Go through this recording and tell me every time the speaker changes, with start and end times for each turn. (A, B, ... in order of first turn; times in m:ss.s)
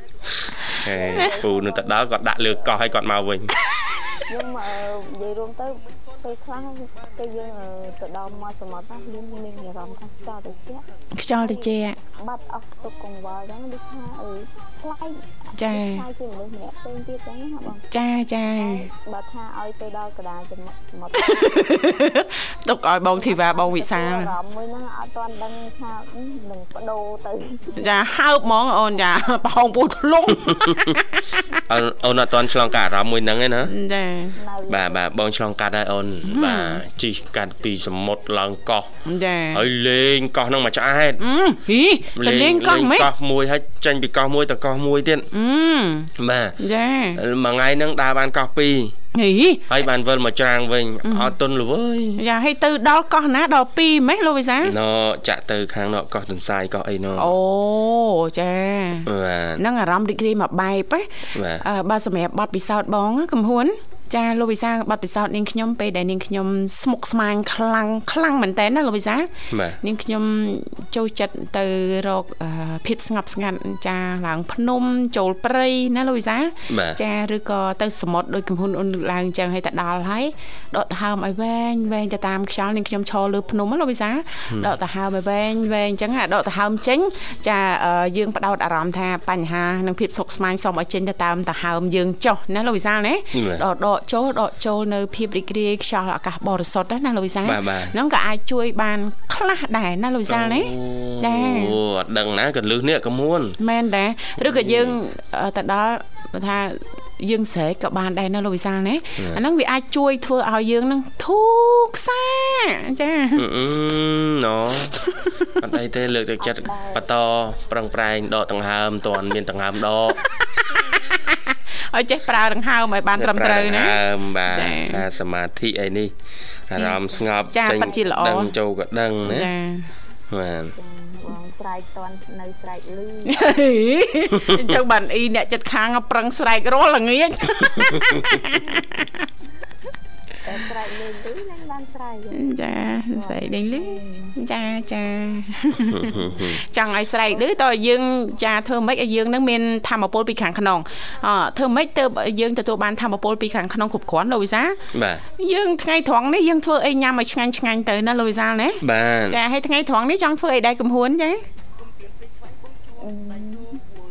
0:00.8-0:03.5 A
0:00.9-0:02.4 B
0:04.3-0:17.8 B
0:11.1-0:12.0 C
0:15.5-0:16.0 C
0:17.9-0:18.9 C
0:18.5-0:21.9 B
0:21.1-0:24.3 C
0:23.2-0:27.8 B
0:27.8-0:31.5 C
0:30.4-0:30.9 A
0:31.7-0:33.7 A
0:33.7-0:34.4 C
0:34.4-0:35.0 B
0:34.7-0:38.9 A
0:36.3-0:36.8 C
0:39.0-0:39.6 C
0:39.5-0:41.2 A
0:41.2-0:43.1 C
0:42.1-0:45.3 A
0:45.3-0:47.2 C
0:46.2-0:46.6 A
0:47.2-0:48.9 A
0:49.1-0:49.7 C
0:49.7-0:52.2 A
0:51.0-0:51.3 C
0:52.2-0:54.7 C
0:54.6-0:57.3 A
0:57.2-1:09.3 C
0:59.0-0:59.6 A
1:01.3-1:01.6 A
1:09.5-1:09.8 A
1:09.8-1:41.8 C
1:16.7-1:17.0 A
1:33.3-1:33.6 A
1:37.4-1:37.9 A
1:40.3-1:43.6 A
1:43.6-1:53.4 C
1:44.4-1:45.0 A
1:53.4-1:55.0 A
1:55.0-1:55.5 C
1:55.6-2:00.2 A
1:56.4-1:57.0 B
2:00.8-2:05.0 C
2:03.2-2:06.1 A
2:06.7-2:09.5 A
2:06.8-2:08.5 C
2:09.2-2:09.9 C
2:10.3-2:10.7 A
2:10.8-2:13.4 B
2:13.3-2:19.2 C
2:20.4-2:24.4 B
2:22.3-2:34.8 C
2:25.9-2:26.6 A
2:34.9-2:35.2 A
2:35.3-2:41.4 C
2:38.8-2:39.4 A
2:43.0-2:43.8 B